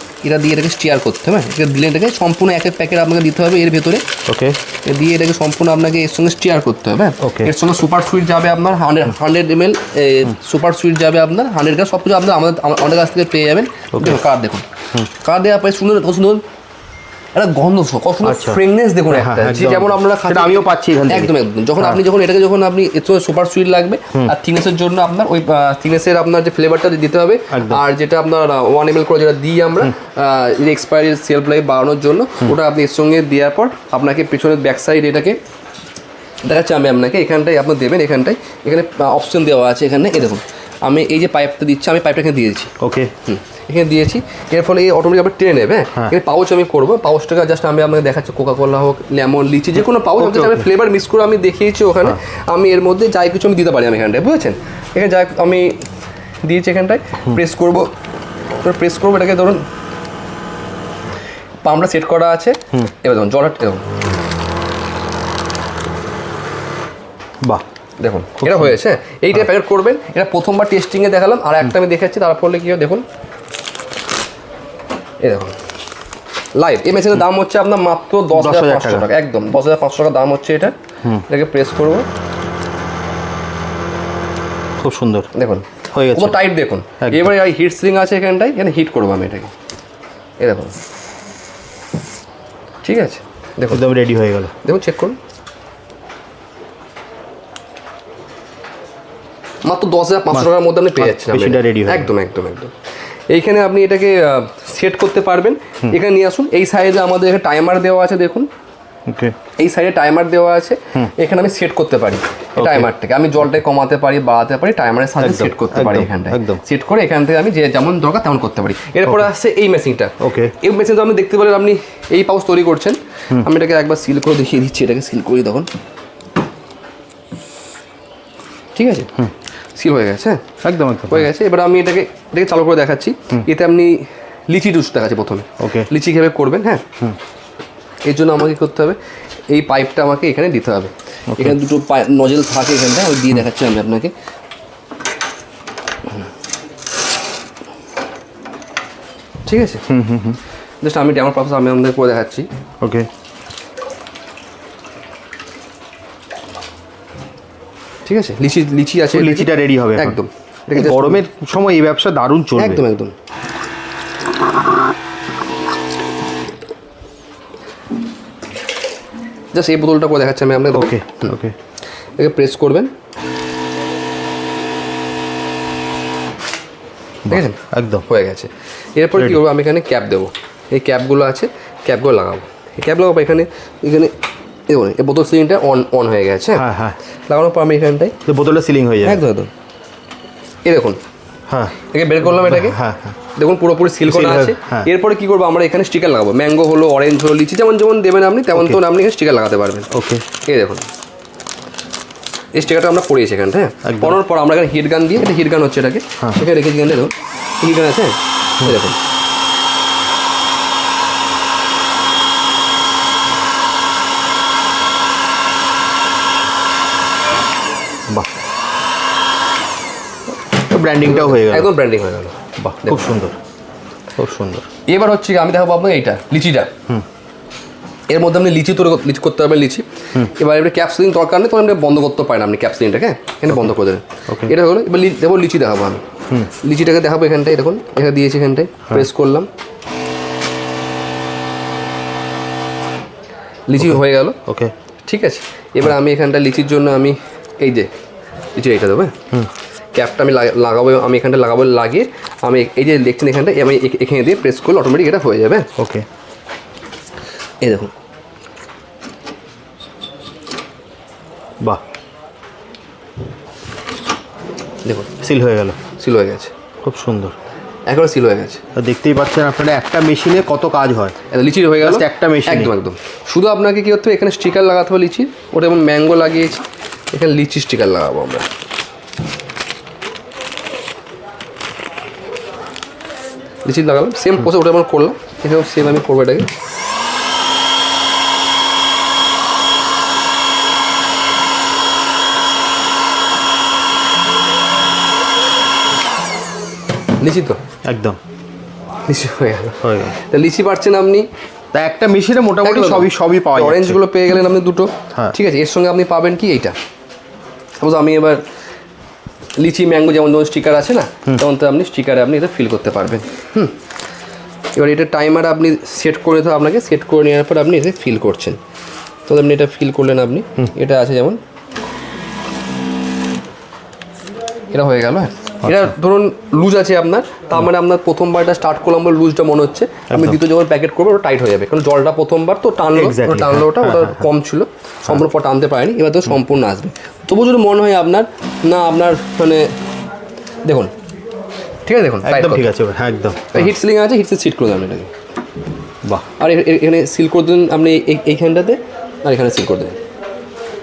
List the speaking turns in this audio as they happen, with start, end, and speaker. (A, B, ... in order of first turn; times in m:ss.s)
0:00.2-0:04.0 A
0:04.3-0:04.6 B
0:04.8-0:16.4 A
0:07.2-0:07.5 B
0:13.9-0:14.2 B
0:17.3-0:35.4 A
0:18.2-0:22.0 B
0:27.5-0:27.8 B
0:36.4-0:42.7 A
0:42.8-0:43.1 B
0:43.2-0:55.8 A
0:50.0-0:50.7 B
0:56.4-0:57.9 A
0:58.6-0:59.6 A
1:01.6-1:03.8 A
1:08.0-1:13.0 A
1:08.4-1:08.8 B
1:15.2-1:15.6 A
1:16.5-1:20.7 A
1:18.3-1:19.1 B
1:21.3-1:22.1 A
1:24.8-1:25.3 B
1:25.3-1:29.5 A
1:25.9-1:26.4 B
1:27.0-1:27.3 B
1:30.4-1:30.8 A
1:32.8-1:33.9 A
1:33.7-1:34.5 B
1:34.6-1:35.2 A
1:39.6-1:42.7 A
1:40.3-1:42.1 B
1:43.3-1:48.5 A
1:49.1-1:49.3 B
1:49.6-2:05.7 A
1:52.6-1:52.9 B
1:55.2-1:56.6 B
2:00.2-2:00.5 B
2:08.8-2:09.2 A
2:09.8-2:10.4 A
2:10.6-2:11.3 B
2:11.1-2:16.8 A
2:15.6-2:15.9 B
2:18.0-2:19.0 A
2:19.5-2:24.1 A
2:21.3-2:21.6 B
2:29.4-2:29.8 A
2:29.9-2:30.4 B
2:30.8-2:32.5 A
2:32.8-2:33.1 B
2:38.0-2:41.2 A
2:39.1-2:40.2 B
2:40.7-2:42.8 B
2:42.6-2:43.1 A
2:49.5-2:51.3 A
2:50.7-2:51.6 B
2:52.2-2:52.9 A
2:57.2-2:58.0 B
2:57.3-3:04.1 A
2:59.2-2:59.4 B
3:04.7-3:06.6 A
3:06.5-3:07.0 B
3:07.3-3:08.2 A
3:08.3-3:09.2 B
3:09.0-3:09.5 A
3:10.6-3:11.0 A
3:11.5-3:13.2 B
3:11.9-3:12.8 A
3:13.3-3:19.9 A
3:14.0-3:14.9 B
3:18.5-3:18.8 B
3:19.9-3:20.2 B
3:20.4-3:20.8 A
3:22.5-3:29.0 A
3:23.8-3:24.2 B
3:40.7-3:41.7 B
3:41.0-3:43.0 A
3:42.6-3:43.4 B
3:44.2-3:44.7 B
3:44.8-3:46.7 A
3:48.1-3:59.5 A
3:54.3-3:54.5 B
4:03.7-4:04.4 A
4:03.8-4:04.7 B
4:05.0-4:07.9 A
4:08.6-4:09.1 A
4:09.9-4:15.7 A
4:15.8-4:16.0 B
4:17.6-4:17.9 A
4:25.2-4:25.8 B
4:26.0-4:26.5 A
4:26.8-4:27.3 B
4:27.9-4:28.6 A
4:28.7-4:31.1 B
4:31.3-4:36.6 A
4:31.8-4:32.7 B
4:37.1-4:38.5 A
4:43.6-4:46.5 A
4:57.2-4:57.6 A
4:57.8-4:58.2 B
4:59.1-5:01.3 A
4:59.8-5:00.1 B
5:01.7-5:04.0 B
5:02.6-5:06.7 A
5:07.8-5:08.4 A
5:09.6-5:13.7 A
5:14.7-5:18.6 A
5:19.3-5:21.4 A
5:24.7-5:39.7 A
5:25.6-5:25.9 B
5:30.1-5:30.4 B
5:32.9-5:34.3 B
5:40.6-5:40.9 A
5:41.8-5:42.7 A
5:42.2-5:43.7 B
5:43.5-5:45.1 A
5:46.4-5:50.0 A